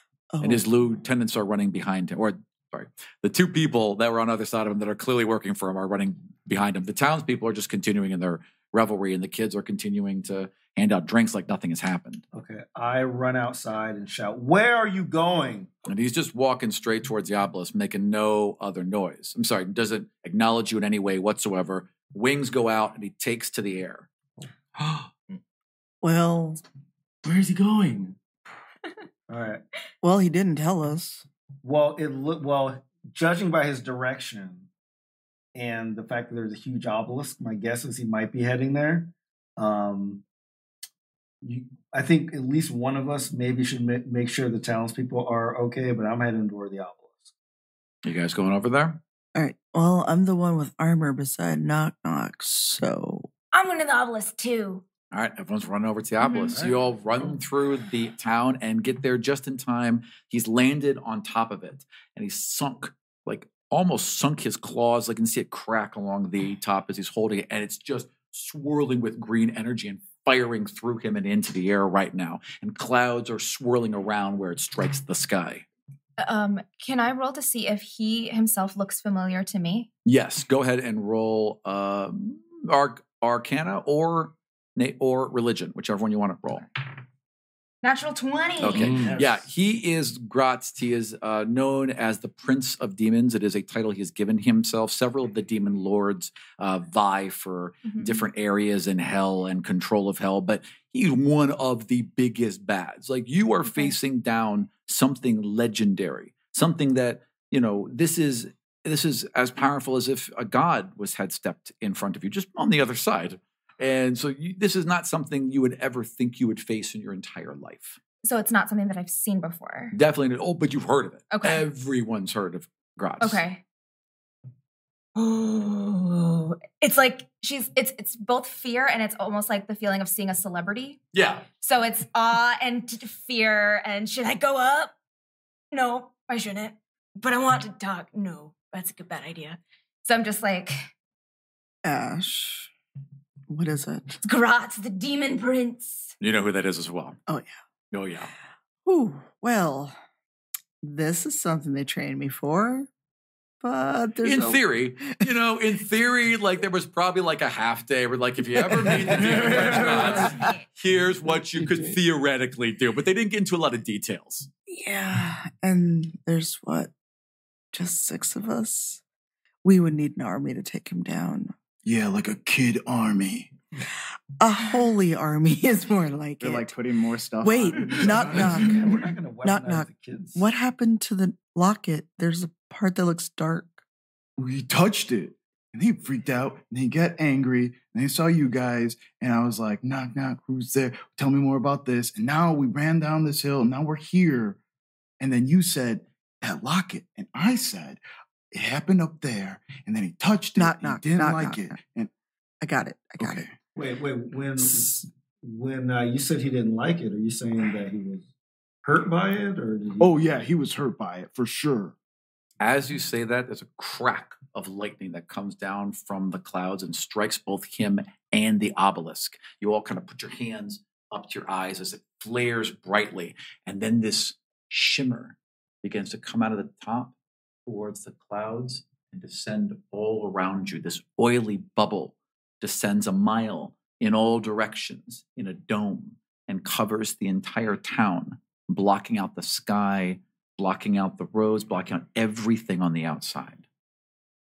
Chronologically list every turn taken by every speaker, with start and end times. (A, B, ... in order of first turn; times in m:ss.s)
0:00.3-0:00.6 A
0:00.4-0:12.2 B
0:12.3-0:15.7 C
0:15.8-0:24.1 B
0:24.8-0:25.1 D
0:26.0-0:26.6 A
0:27.2-0:28.2 D
0:29.3-0:29.6 C
0:30.0-0:31.2 A
0:31.6-0:34.7 C
0:35.5-0:40.2 C
0:41.4-0:47.3 C
0:48.0-0:49.0 B
0:49.3-0:53.3 A
0:53.5-0:54.8 E
0:55.1-1:15.6 B
0:56.2-0:56.6 E
1:16.2-1:19.9 E
1:20.0-1:26.6 B
1:27.8-1:28.8 E
1:28.6-1:58.0 B
1:28.7-1:29.3 D
1:29.0-1:29.3 C
1:37.8-1:38.3 E
1:43.6-1:43.9 E
1:58.2-1:59.9 E
1:59.9-2:03.4 B
2:01.3-2:01.6 E
2:03.2-2:03.6 E
2:05.2-2:11.0 E
2:11.1-2:11.5 B
2:11.6-2:14.9 E
2:15.7-2:20.9 E
2:21.8-2:22.7 A
2:23.5-2:24.2 A
2:24.2-2:26.1 E
2:26.2-2:27.2 B
2:27.3-2:27.5 A
2:27.9-2:28.3 B
2:28.8-2:30.0 A
2:30.8-2:32.9 A
2:33.6-2:35.2 A
2:34.2-2:44.5 B
2:39.6-2:40.6 E
2:44.7-2:46.9 A
2:47.7-2:49.0 A
2:49.6-2:51.5 A
2:51.8-2:53.5 F
2:54.4-2:56.8 A
2:56.4-2:58.8 F
2:57.4-3:03.8 A
2:57.7-3:00.5 C
3:04.4-3:14.6 F
3:15.2-3:18.0 F
3:18.5-3:22.1 F
3:20.6-3:21.8 A
3:22.6-3:23.5 A
3:23.2-3:23.5 F
3:23.8-3:28.3 C
3:28.8-3:30.4 C
3:30.0-3:31.9 F
3:32.6-3:47.1 B
3:47.6-4:03.6 B